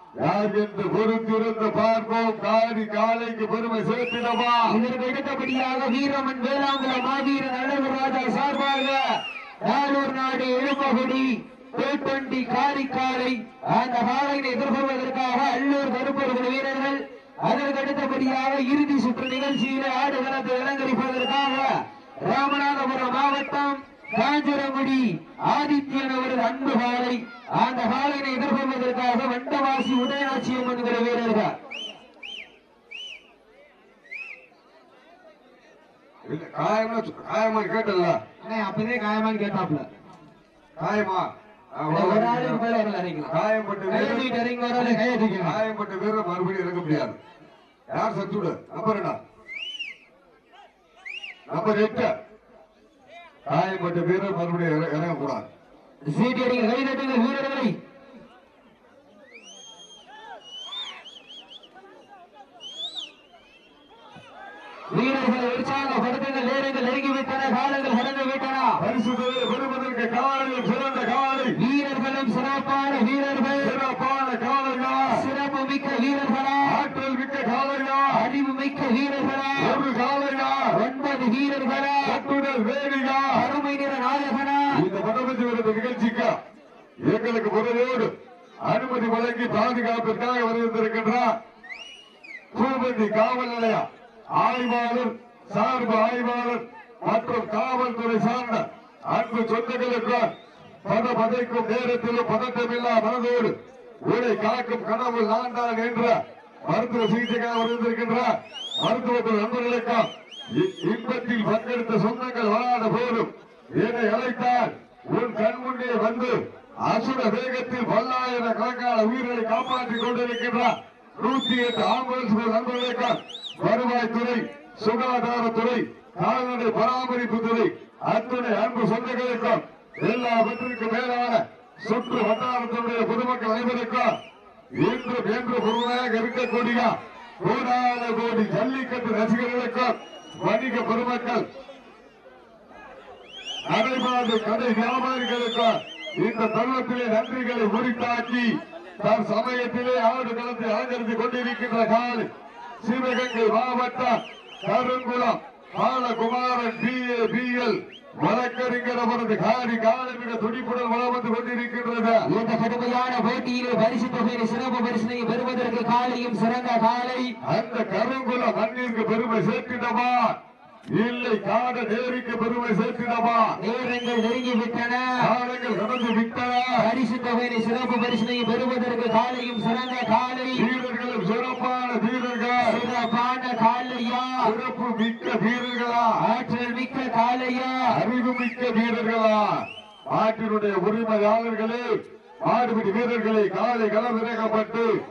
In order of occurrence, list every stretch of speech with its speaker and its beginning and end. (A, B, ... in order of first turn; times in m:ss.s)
0:00.2-0:04.7 A
0:04.7-0:09.0 B
0:09.6-0:21.7 B
0:22.2-0:31.5 B
0:36.2-0:38.2 A
0:38.4-0:39.9 C
0:40.8-0:42.6 A
0:41.9-0:43.3 B
0:42.0-0:42.6 C
0:43.3-0:44.2 A
0:43.9-0:45.1 B
0:43.9-0:45.6 C
0:45.4-0:47.2 A
0:47.9-0:49.2 A
0:51.5-0:52.1 A
0:53.4-0:55.5 A
0:56.1-0:57.8 B
1:04.9-1:08.8 B
1:08.8-1:11.6 A
1:11.6-1:13.7 B
1:13.6-1:15.2 A
1:15.1-1:16.8 B
1:16.6-1:18.2 A
1:18.1-1:19.8 B
1:19.6-1:20.7 A
1:20.7-1:22.2 B
1:22.0-1:23.5 A
1:23.3-1:24.8 B
1:24.7-1:26.4 A
1:27.0-1:31.4 A
1:32.5-1:40.3 A
1:40.8-2:14.1 A
2:14.8-2:21.4 A
2:23.7-2:32.3 A
2:32.8-2:42.2 A
2:42.2-2:47.3 B
2:47.4-2:50.4 A
2:50.9-2:53.6 A
2:53.6-2:55.1 B
2:55.2-2:56.8 A
2:56.8-3:00.7 B
3:00.5-3:02.8 A
3:02.6-3:04.5 B
3:04.4-3:06.2 A
3:06.2-3:07.9 B
3:07.9-3:11.9 A
3:12.4-3:14.9 A